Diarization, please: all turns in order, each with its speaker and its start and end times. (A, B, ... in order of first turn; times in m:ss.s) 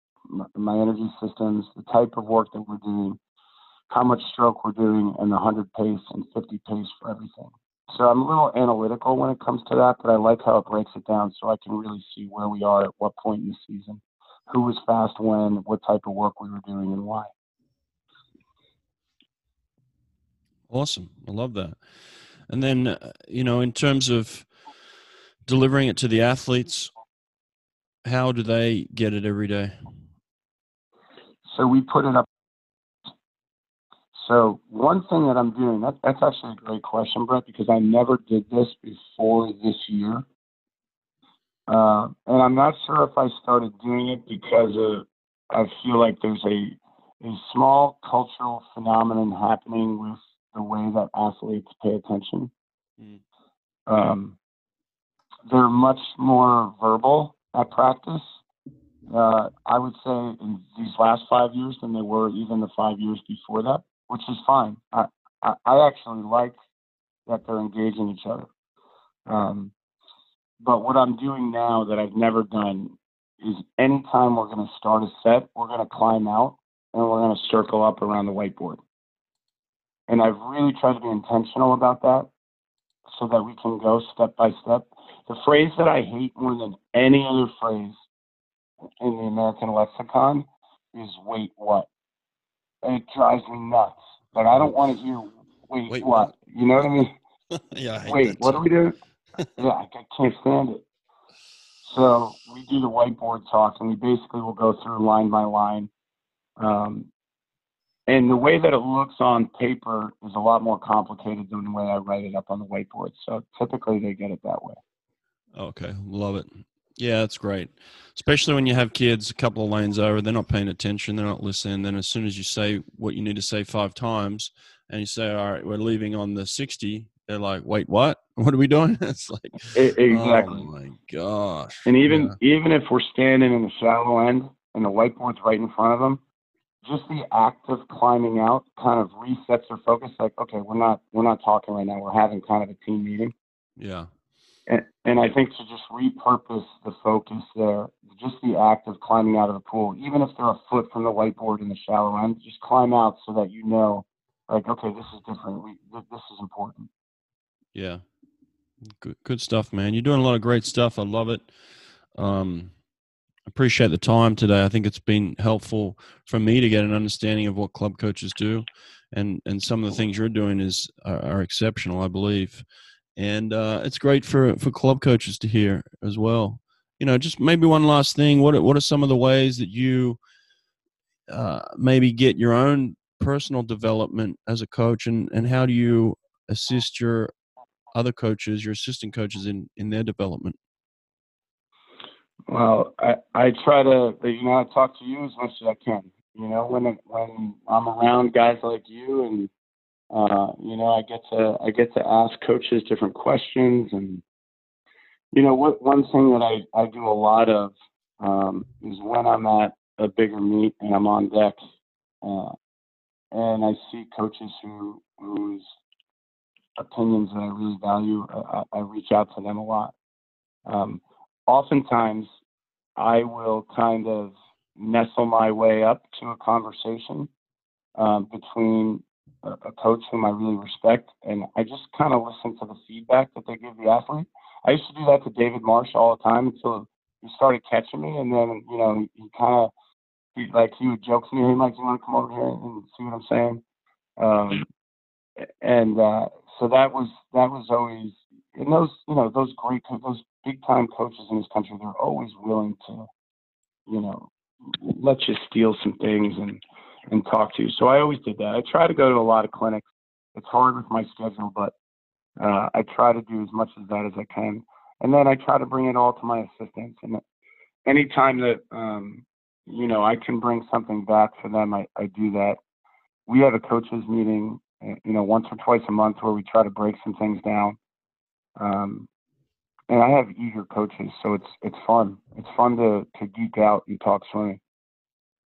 0:00.3-0:03.2 A
0:03.9-0:17.3 A
0:20.7-0:21.8 B
0:22.5-0:24.5 B
0:25.5-0:26.9 B
0:28.0-0:29.8 B
0:31.5-0:32.3 A
0:34.1-0:40.2 A
0:41.7-0:52.5 A
0:53.9-0:54.4 A
0:55.5-0:58.2 A
0:59.1-1:06.6 A
1:07.3-1:08.5 A
1:09.3-1:09.7 A
1:10.6-1:18.8 A
1:20.1-1:22.3 A
1:23.1-1:28.0 A
1:29.0-1:31.9 A
1:32.8-1:37.2 A
1:34.4-1:34.8 B
1:35.9-1:36.3 B
1:37.6-1:38.6 B
1:38.0-1:39.0 A
1:39.6-1:40.8 A
1:41.8-1:45.9 A
1:46.6-1:47.1 A
1:48.1-1:54.8 A
1:55.6-2:12.4 B
2:09.7-2:10.6 A
2:11.9-2:16.2 A
2:16.8-2:23.3 A
2:23.8-2:24.1 B
2:24.7-2:36.9 A
2:37.7-2:38.0 B
2:38.8-2:41.5 B
2:42.1-2:42.7 B
2:43.5-2:52.6 B
2:53.2-3:00.2 B
3:01.3-3:07.3 B
3:07.9-3:10.6 B
3:12.5-3:19.5 A
3:20.1-3:24.2 A
3:25.3-3:31.6 A
3:32.2-3:32.6 A
3:33.3-3:35.7 A
3:36.8-3:39.9 A
3:40.7-3:42.3 A
3:43.0-3:47.3 A
3:48.0-3:59.7 A
4:00.4-4:03.6 A
4:04.2-4:04.7 A
4:05.6-4:13.1 A
4:13.9-4:21.7 A
4:22.4-4:27.2 A
4:27.9-4:32.6 A
4:33.3-4:37.8 A
4:38.6-4:39.1 A
4:39.9-4:44.6 A